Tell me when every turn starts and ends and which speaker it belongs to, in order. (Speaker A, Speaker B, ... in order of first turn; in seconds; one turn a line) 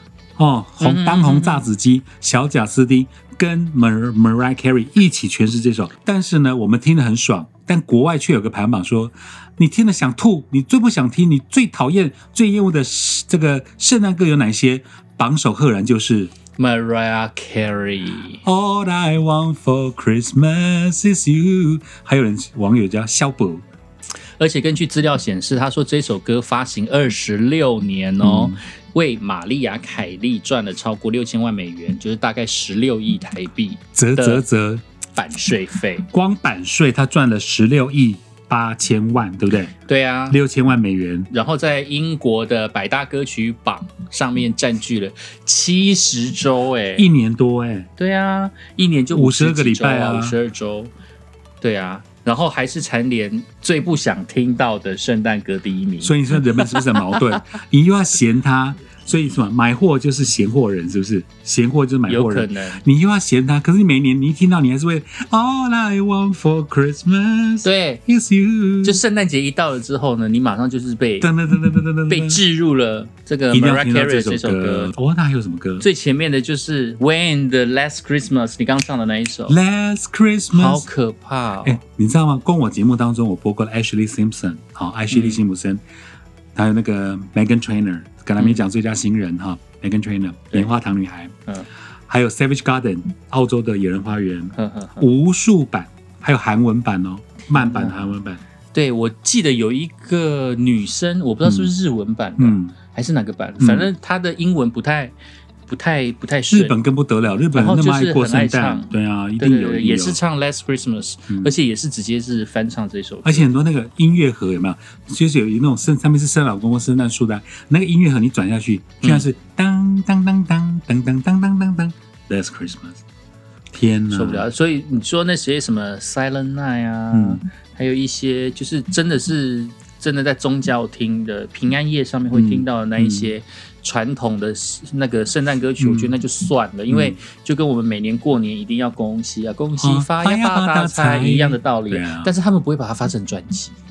Speaker A: 0.3-16.3
Speaker B: 0.8-1.6
Speaker B: 16.6-18.4
Speaker A: 18.4-23.6
Speaker B: 24.4-34.4
Speaker A: 28.2-28.6
Speaker A: 34.0-34.8
Speaker B: 35.1-36.1
Speaker A: 36.1-39.7
Speaker B: 39.9-40.4
Speaker A: 40.3-41.3
Speaker B: 41.3-47.1
Speaker A: 47.0-47.9
Speaker B: 48.0-50.9
Speaker A: 49.1-50.4
Speaker B: 51.6-57.2
Speaker A: 56.0-69.0
Speaker B: 62.1-62.8
Speaker B: 67.6-68.0
Speaker B: 68.8-71.3
Speaker A: 71.2-72.4
Speaker B: 72.1-74.9
Speaker A: 73.5-75.8
Speaker B: 75.8-79.6
Speaker A: 79.5-80.8
Speaker B: 80.5-81.8
Speaker A: 81.6-85.8
Speaker B: 85.1-85.4
Speaker A: 86.5-91.3
Speaker B: 88.4-88.6
Speaker A: 92.1-98.4
Speaker B: 94.5-95.1
Speaker B: 97.5-98.1
Speaker B: 98.7-105.1
Speaker A: 101.4-101.7
Speaker A: 102.4-102.7
Speaker A: 103.6-103.9
Speaker B: 105.7-106.8
Speaker A: 106.5-110.2
Speaker B: 107.5-113.5
Speaker A: 113.2-123.0
Speaker B: 119.0-119.3
Speaker A: 123.7-124.5
Speaker B: 124.1-143.8
Speaker A: 127.1-127.4
Speaker A: 132.3-133.3
Speaker A: 135.8-136.1
Speaker A: 136.9-137.2
Speaker A: 139.8-142.3